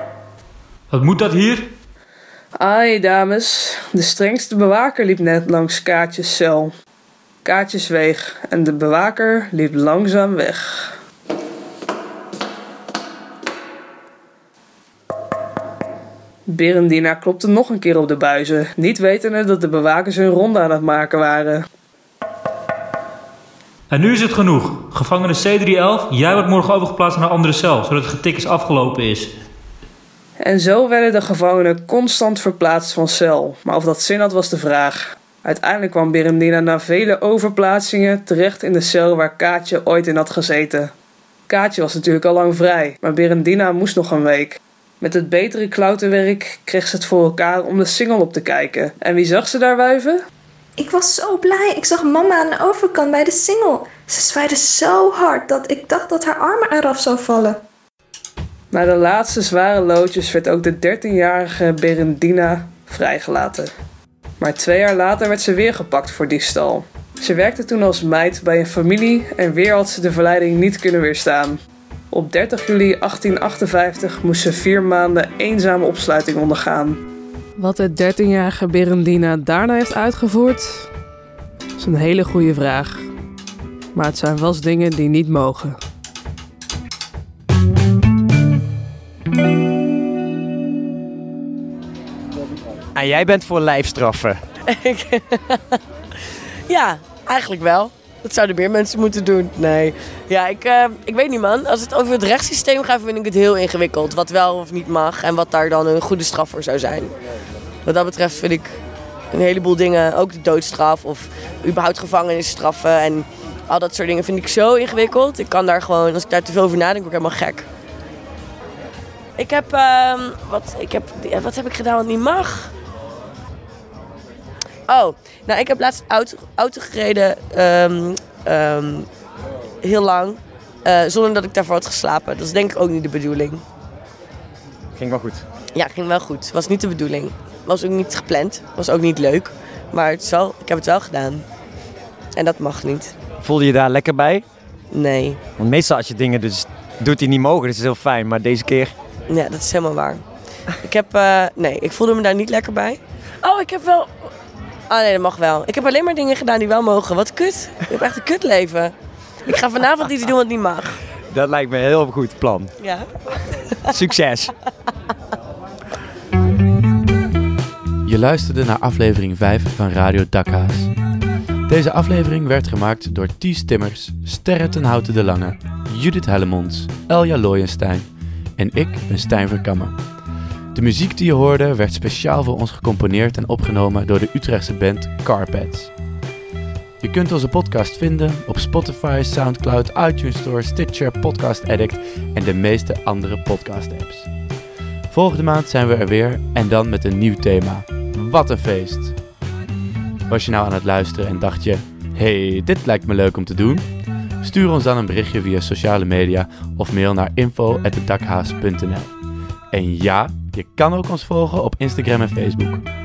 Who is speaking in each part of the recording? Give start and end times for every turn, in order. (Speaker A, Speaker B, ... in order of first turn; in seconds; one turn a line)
Speaker A: 0.9-1.7
Speaker B: 2.6-6.7
Speaker B: 7.4-10.9
Speaker B: 16.5-21.6
Speaker A: 23.9-29.3
Speaker B: 30.4-40.9
Speaker B: 41.5-50.2
Speaker C: 50.8-57.6
Speaker B: 58.7-63.7
Speaker B: 64.4-71.6
Speaker B: 72.1-77.0
Speaker B: 77.6-80.9
Speaker B: 81.8-83.0
Speaker B: 83.9-85.8
Speaker D: 92.9-94.4
Speaker E: 94.7-95.8
Speaker E: 96.7-107.1
Speaker E: 107.8-108.7
Speaker E: 109.3-117.7
Speaker E: 119.4-122.7
Speaker E: 124.9-129.1
Speaker E: 129.8-133.6
Speaker D: 134.9-135.4
Speaker E: 135.7-141.4
Speaker E: 142.3-143.1
Speaker D: 143.4-144.4
Speaker E: 144.9-145.4
Speaker D: 145.6-148.9
Speaker E: 149.3-150.2
Speaker E: 150.8-154.2
Speaker E: 154.9-158.9
Speaker E: 159.5-161.0
Speaker D: 161.3-162.7
Speaker E: 162.8-163.1
Speaker D: 163.9-164.5
Speaker F: 168.0-170.9
Speaker F: 171.7-179.9
Speaker F: 180.7-185.9
Speaker F: 187.0-194.3
Speaker F: 195.1-199.1
Speaker F: 200.3-203.8
Speaker F: 204.4-209.1
Speaker F: 209.7-212.8